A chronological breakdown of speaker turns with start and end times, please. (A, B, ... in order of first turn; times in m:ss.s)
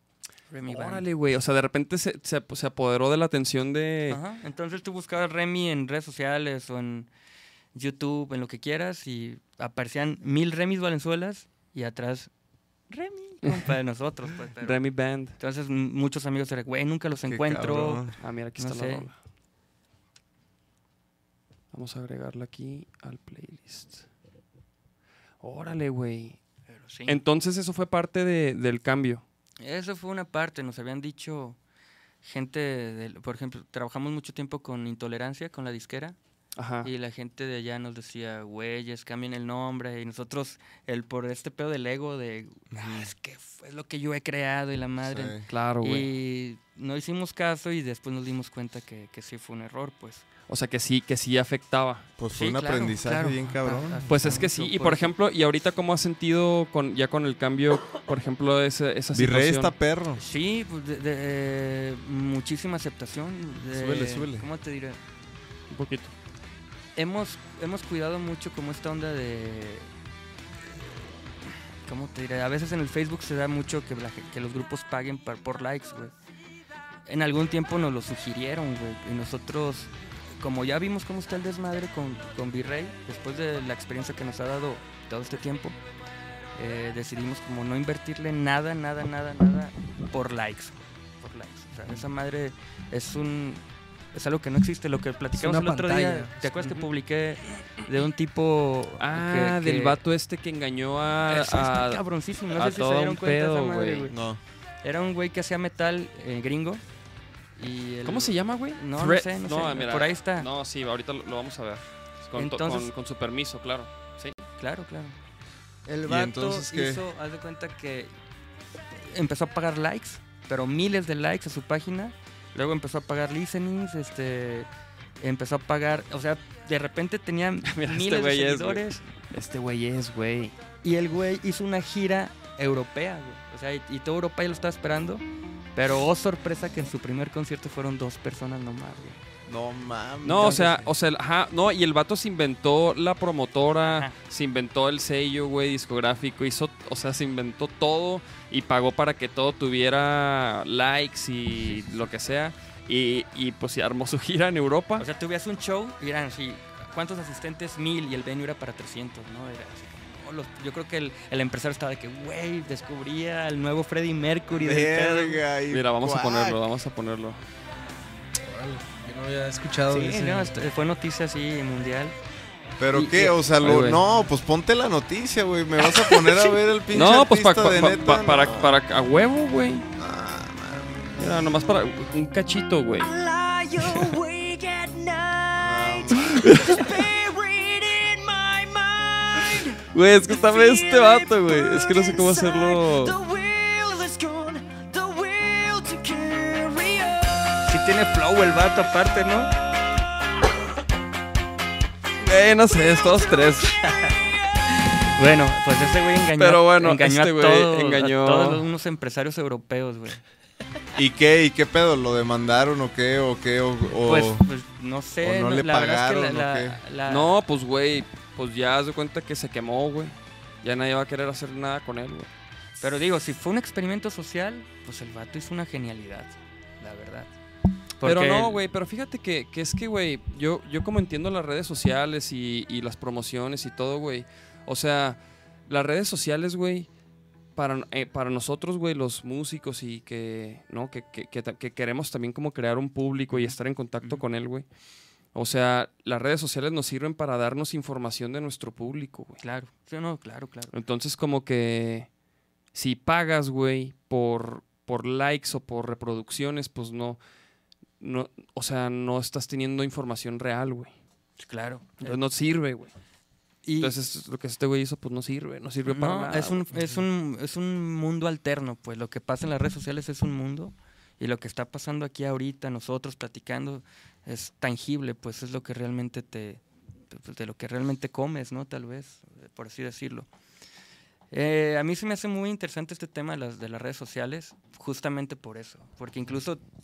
0:00.5-0:01.0 A
0:00.7-0:04.2 B
0:04.1-0:07.1 A
0:07.7-0:12.3 A
0:12.9-0:14.8 A
0:14.6-0:15.4 B
0:15.4-0:18.0 A
0:17.2-0:18.1 C
0:18.2-0:19.1 B
0:18.6-0:19.1 A
0:21.7-0:24.0 B
0:25.4-0:26.4 B
0:26.7-0:27.2 A
0:27.1-0:29.2 B
0:29.6-0:31.6 A
0:32.2-0:36.2 A
0:36.6-0:36.9 B
0:36.8-0:50.2 A
0:42.7-0:43.1 C
0:45.0-0:45.4 C
0:45.5-0:46.1 B
0:50.5-0:52.0 B
0:52.2-0:54.0 C
0:52.3-0:55.1 A
0:54.1-0:59.7 B
0:59.1-1:00.2 C
1:00.2-1:05.0 A
1:03.7-1:04.5 C
1:05.7-1:06.1 B
1:07.0-1:09.9 A
1:11.8-1:16.1 A
1:17.1-1:25.8 A
1:26.5-1:33.6 A
1:34.1-1:40.0 A
1:35.3-1:36.7 D
1:39.0-1:44.1 B
1:41.3-1:44.1 A
1:44.1-1:44.4 C
1:44.8-1:46.8 A
1:47.6-1:50.5 A
1:48.0-1:54.4 B
1:52.4-1:52.9 A
1:54.6-1:55.1 A
1:55.8-1:58.1 A
1:56.0-1:57.0 C
1:59.0-2:04.7 A
2:05.2-2:09.0 A
2:07.7-2:10.6 B
2:10.8-2:15.2 A
2:15.7-2:19.2 A
2:19.4-2:20.8 C
2:20.2-2:35.0 B
2:20.4-2:20.9 A
2:23.8-2:24.1 A
2:31.7-2:32.0 A
2:35.0-2:45.4 A
2:44.5-2:46.6 C
2:45.7-2:47.4 B
2:48.4-2:50.5 D
2:49.9-2:52.1 A
2:52.8-2:58.8 C
2:52.9-2:53.4 A
2:53.6-2:54.0 B
2:56.9-2:59.9 B
3:00.0-3:01.1 C
3:01.2-3:03.1 B
3:03.0-3:17.5 E
3:03.8-3:04.1 B
3:05.6-3:06.4 C
3:06.2-3:07.0 B
3:09.9-3:13.2 B
3:17.6-3:19.5 A
3:22.2-3:23.7 B
3:22.7-3:24.4 E
3:25.0-3:30.2 A
3:26.4-3:28.6 B
3:31.0-3:34.4 C
3:34.0-3:37.3 A
3:35.2-3:36.8 C
3:37.1-3:42.3 B
3:42.8-3:47.3 A
3:48.0-3:48.6 A
3:48.0-3:56.9 B
3:57.6-4:04.6 B
4:03.3-4:04.2 A
4:05.3-4:09.4 B
4:09.4-4:10.7 A
4:10.7-4:12.1 B
4:12.7-4:17.2 B
4:18.0-4:20.9 B
4:21.4-4:22.2 A
4:22.0-4:22.9 B
4:23.6-4:23.9 A
4:23.8-4:26.9 B
4:25.8-4:40.3 A
4:41.3-4:46.6 A